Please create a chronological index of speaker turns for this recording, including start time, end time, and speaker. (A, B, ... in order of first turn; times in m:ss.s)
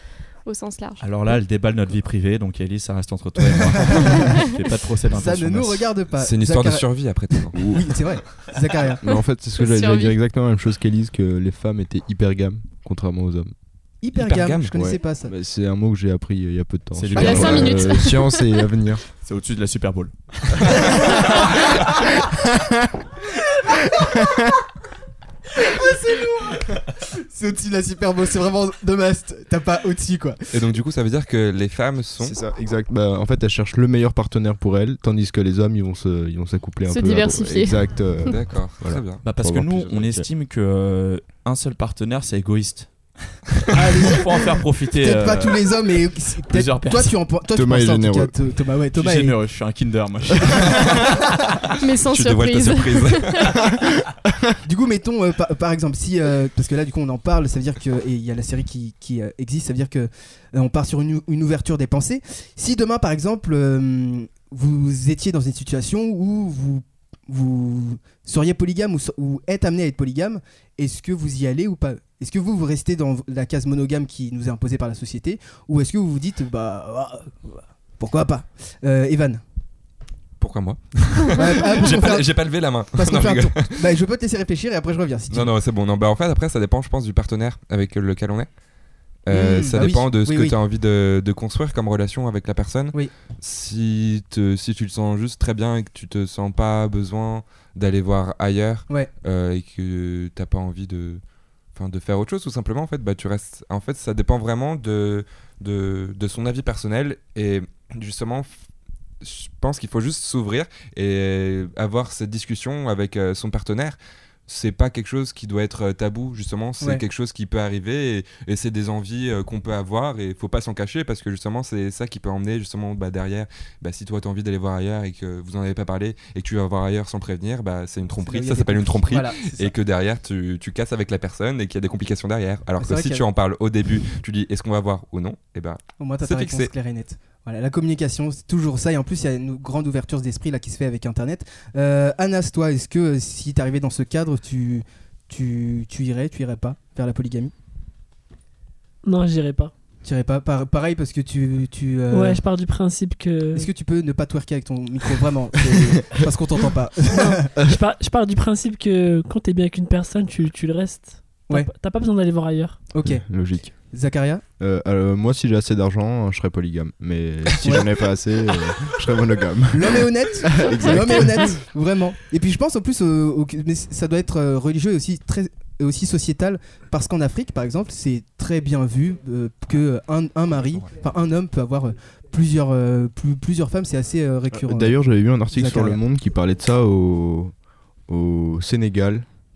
0:00.4-0:01.2 A
0:01.0-0:05.9 B
0:03.8-0:04.2 C
0:05.1-0:09.0 C
0:06.2-0:07.7 D
0:09.0-0:13.5 E
0:09.6-0:10.2 A
0:14.0-0:15.3 C
0:14.1-0:14.7 D
0:14.7-0:19.0 E
0:16.9-0:18.0 B
0:17.1-0:18.6 A
0:19.2-0:21.7 B
0:22.2-0:22.9 E
0:23.9-0:24.3 C
0:24.0-0:24.4 E
0:25.6-0:30.5 C
0:30.5-0:32.4 D
0:32.2-0:40.2 E
0:36.9-0:38.3 A
0:38.2-0:39.2 D
0:39.2-0:45.9 B
0:43.7-0:49.4 C
0:46.4-0:47.2 B
0:47.5-0:48.3 E
0:48.9-0:51.6 B
0:51.8-0:53.5 A
0:52.0-0:53.5 D
0:54.6-1:19.4 C
1:20.4-1:23.8 D
1:21.3-1:22.3 C
1:22.9-1:25.5 C
1:25.3-1:28.5 D
1:29.2-1:41.2 D
1:29.3-1:30.5 C
1:41.7-1:48.6 D
1:49.2-2:16.7 D
2:08.2-2:09.7 C
2:12.8-2:13.2 C
2:16.0-2:27.5 C
2:29.0-2:29.7 F
2:30.0-2:32.4 C
2:32.1-2:33.7 F
2:33.5-2:37.5 C
2:37.1-2:42.8 F
2:42.9-2:43.2 C
2:43.0-2:43.7 E
2:43.9-2:44.4 C
2:44.6-2:51.6 E
2:47.6-2:47.9 C
2:49.7-3:05.0 C
2:50.6-2:51.4 A
3:04.5-3:07.5 E
3:05.5-3:06.0 C
3:08.1-3:09.3 E